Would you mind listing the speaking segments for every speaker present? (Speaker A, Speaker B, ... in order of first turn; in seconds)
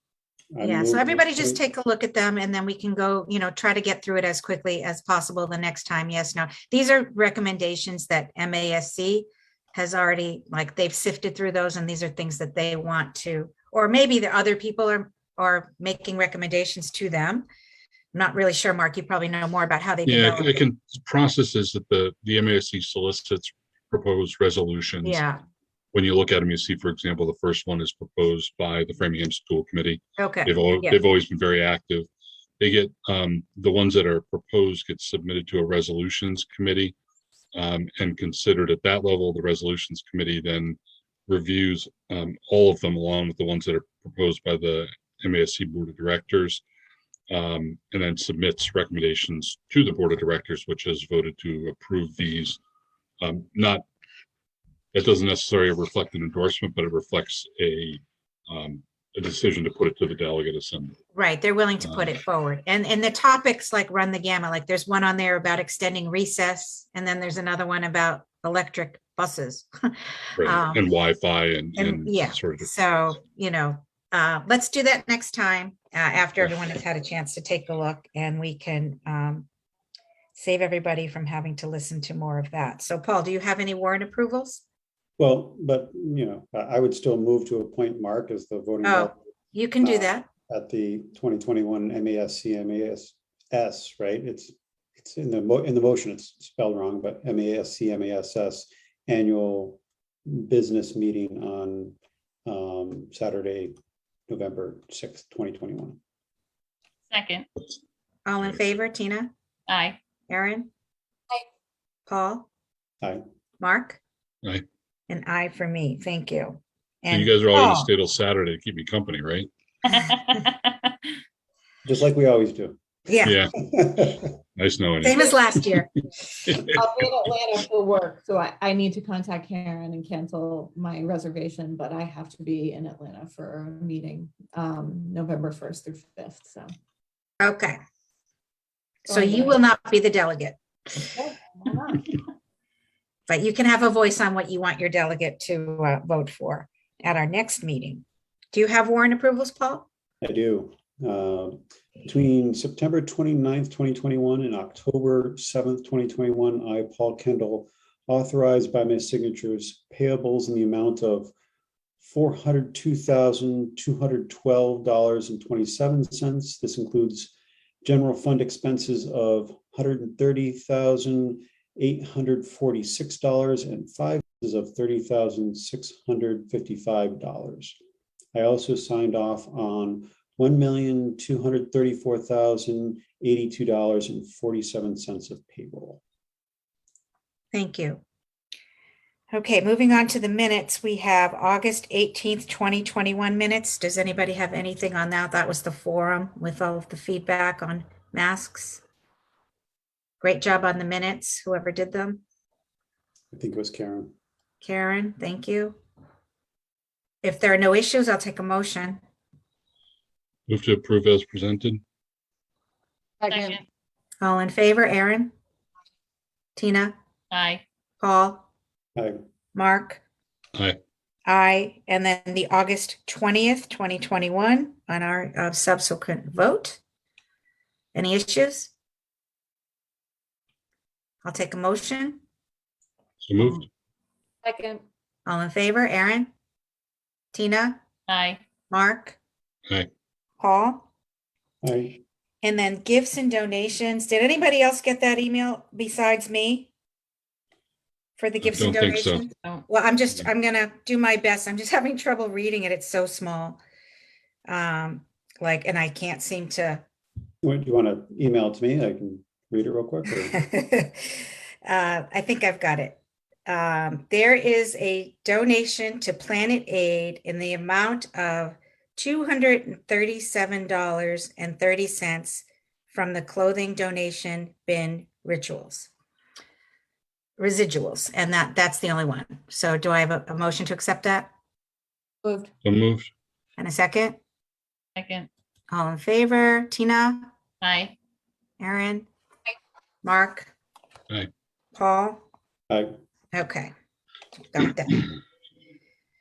Speaker A: 0.5-1.6, 85.2-89.3, 89.8-103.7, 104.3-106.0, 121.8-122.8, 123.6-124.3, 150.2-161.3, 162.0-167.3, 167.8-177.8, 178.3-186.0, 203.3-204.1, 218.9-219.2, 241.6-242.0, 257.4-260.4, 292.7-292.9
Speaker B: 0.6-17.5, 18.1-20.6, 25.0-25.4, 30.2-31.0, 61.1-70.8, 71.8-79.5, 80.3-84.6, 88.8-90.2, 108.2-109.3, 110.3-110.7, 112.1-112.5, 113.6-114.0, 115.1-117.9, 123.1-123.4, 125.0-126.6, 137.4-137.8, 139.1-141.0, 143.3-149.8, 187.5-188.0, 189.3-198.8, 200.2-202.2, 204.6-205.8, 207.2-209.0, 214.2-215.3, 216.6-216.9, 218.0-218.5, 219.5-220.0, 221.2-226.8, 227.9-228.7, 231.2-232.2, 235.2-236.3, 237.3-237.8, 238.7-239.2, 240.4-240.9, 242.4-246.7, 248.2-253.6, 254.4-256.8, 260.3-275.9, 277.4-281.3, 283.6-284.2, 285.7-287.3, 288.6-289.1, 290.0-290.5, 291.7-292.2, 293.3-293.7, 294.5-295.1
Speaker C: 20.1-25.2, 25.9-32.1, 32.6-36.9, 37.5-46.6, 47.3-52.6, 53.2-53.8, 54.9-61.0, 61.8-62.1, 70.4-72.7, 117.1-119.5, 123.2-123.5, 124.5-125.3, 210.5-211.8, 233.2-233.7, 248.4-249.3, 282.6-283.1
Speaker D: 107.1-107.5, 109.7-110.0, 119.9-120.7, 213.3-213.6, 217.3-217.6, 238.1-238.4, 284.9-285.3, 287.6-287.9
Speaker E: 126.6-136.7, 139.1-139.6, 141.1-142.2, 213.2-213.6, 234.4-234.8, 282.2-282.5